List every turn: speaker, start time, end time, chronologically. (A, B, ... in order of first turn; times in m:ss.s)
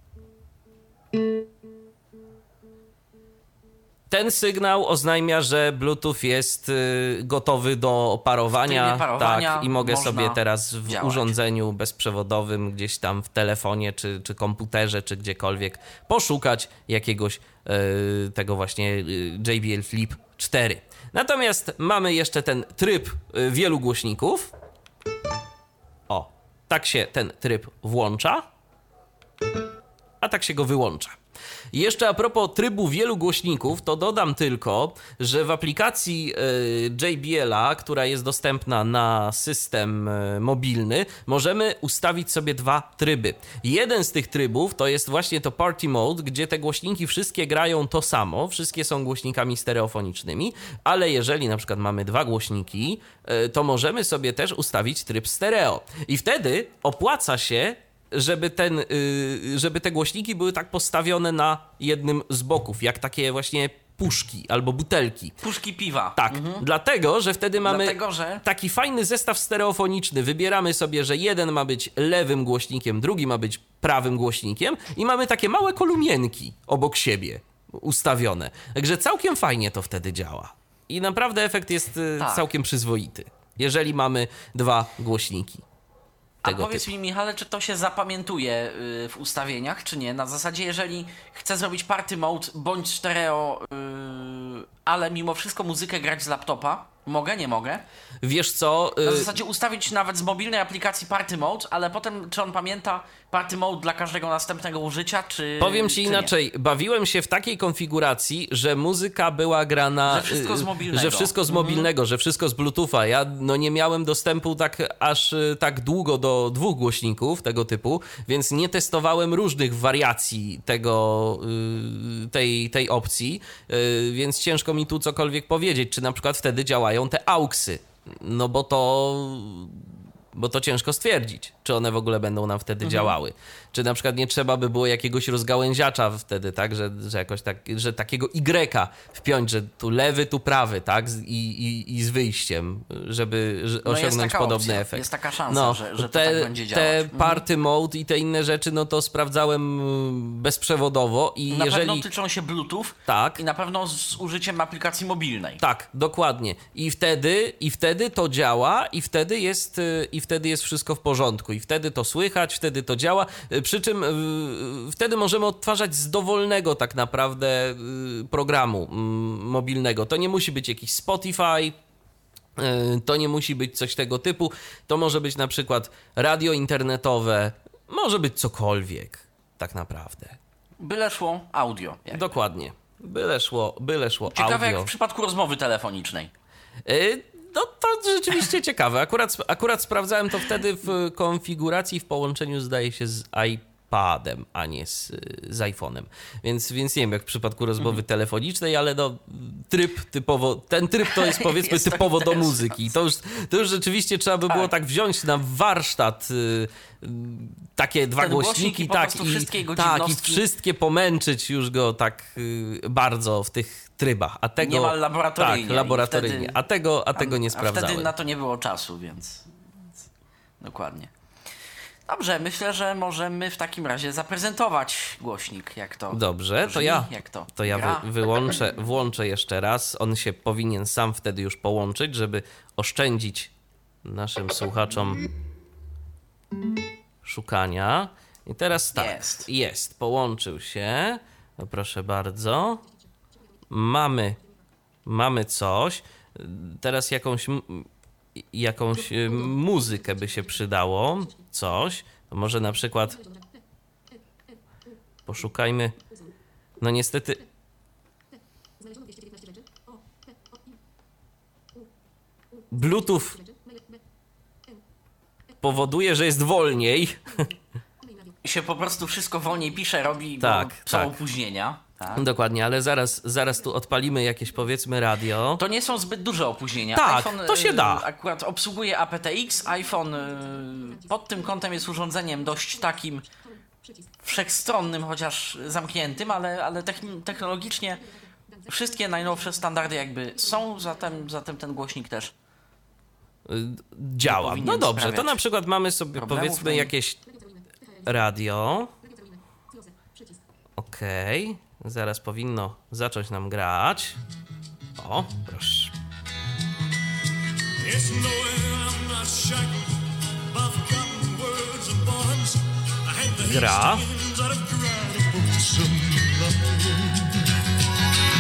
0:04.1-0:24.5 A
0:08.6-0:11.3 B
0:26.1-0:28.4 A
0:30.2-0:31.2 A
0:31.7-1:05.4 A
1:05.4-1:06.6 B
1:06.2-1:25.6 A
1:07.6-1:08.4 B
1:22.2-1:22.5 B
1:26.4-1:37.8 B
1:26.4-1:26.8 A
1:38.2-1:39.3 A
1:39.0-1:46.3 B
1:45.6-2:09.8 A
1:50.1-1:51.9 B
2:10.3-2:32.0 A
2:12.8-2:13.1 B
2:23.8-2:27.4 B
2:31.5-2:35.6 B
2:33.1-2:33.4 A
2:35.6-2:51.8 A
2:52.6-3:00.4 A
3:00.8-3:02.3 B
3:02.1-3:04.9 A
3:04.3-3:06.3 B
3:06.8-3:38.1 A
3:21.1-3:22.9 B
3:28.2-3:30.4 B
3:34.6-3:36.6 B
3:37.2-3:39.5 B
3:40.6-3:41.1 B
3:42.1-3:48.1 B
3:46.1-3:53.5 A
3:54.0-3:55.2 A
3:57.2-4:02.8 A
3:59.0-3:59.5 B
4:03.7-4:04.4 A
4:05.1-4:07.9 A
4:08.5-4:13.2 A
4:15.3-4:16.0 A
4:16.8-4:17.4 A
4:22.7-4:23.4 A
4:25.6-4:27.5 A
4:28.4-4:32.2 B
4:30.4-4:31.2 A
4:32.2-4:35.6 A
4:35.6-4:43.3 B
4:37.0-4:38.0 A
4:44.2-4:48.0 B
4:48.6-4:52.3 B
4:53.5-4:57.3 A
4:54.2-4:55.4 B
4:56.1-4:56.9 B
4:58.0-4:58.9 A
5:00.8-5:04.2 A
5:05.0-5:05.9 A
5:07.8-5:17.5 C
5:13.4-5:14.0 A